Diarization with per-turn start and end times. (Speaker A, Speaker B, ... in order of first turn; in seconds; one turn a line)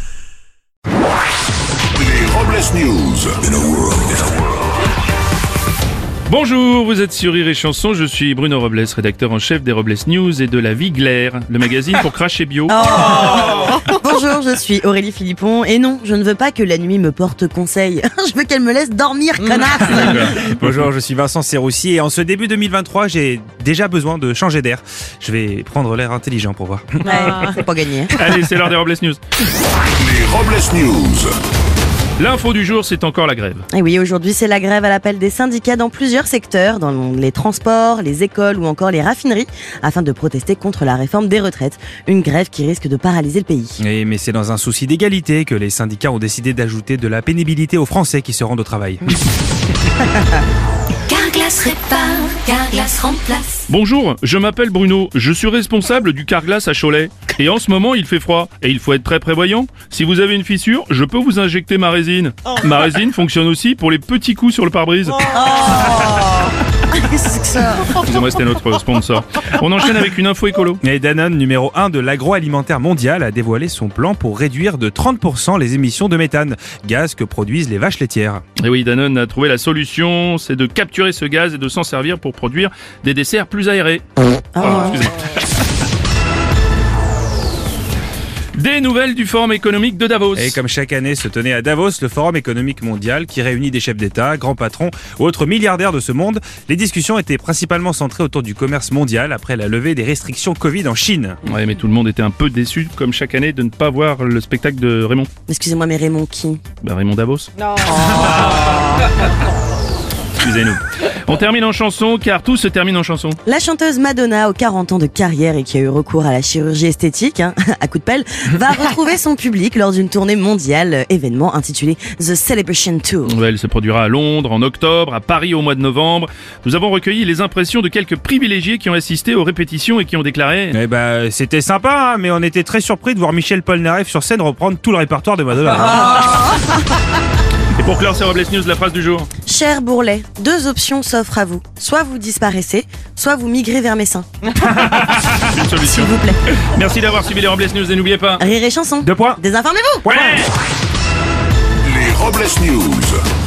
Speaker A: 1.9-4.4
Speaker B: 6.3-12.8
Speaker C: 12.7-20.4
Speaker B: 20.0-20.3
Speaker D: 20.1-27.6
Speaker C: 27.0-28.2
Speaker B: 28.1-29.2
Speaker A: 30.0-31.4
Speaker B: 32.2-33.7
Speaker C: 33.7-43.8
Speaker D: 43.8-49.2
Speaker E: 51.1-53.6
Speaker B: 53.7-65.3
Speaker C: 65.2-68.0
Speaker B: 67.9-70.8
Speaker D: 70.8-78.4
Speaker B: 78.6-84.0
Speaker C: 84.6-85.1
Speaker B: 84.6-85.4
Speaker B: 88.5-90.6
Speaker D: 90.3-101.4
Speaker B: 101.5-105.3
Speaker C: 105.5-106.6
Speaker B: 106.8-107.5
Speaker C: 107.8-109.2
Speaker B: 110.4-113.4
Speaker C: 113.5-123.3
Speaker B: 123.2-130.8
Speaker D: 130.7-136.4
Speaker C: 135.7-136.8
Speaker B: 137.8-139.3
Speaker C: 139.5-144.3
Speaker D: 144.6-145.4
Speaker B: 145.2-148.5
Speaker C: 145.8-146.4
Speaker C: 148.4-150.4
Speaker D: 149.0-149.4
Speaker B: 150.1-150.5
Speaker A: 151.8-153.2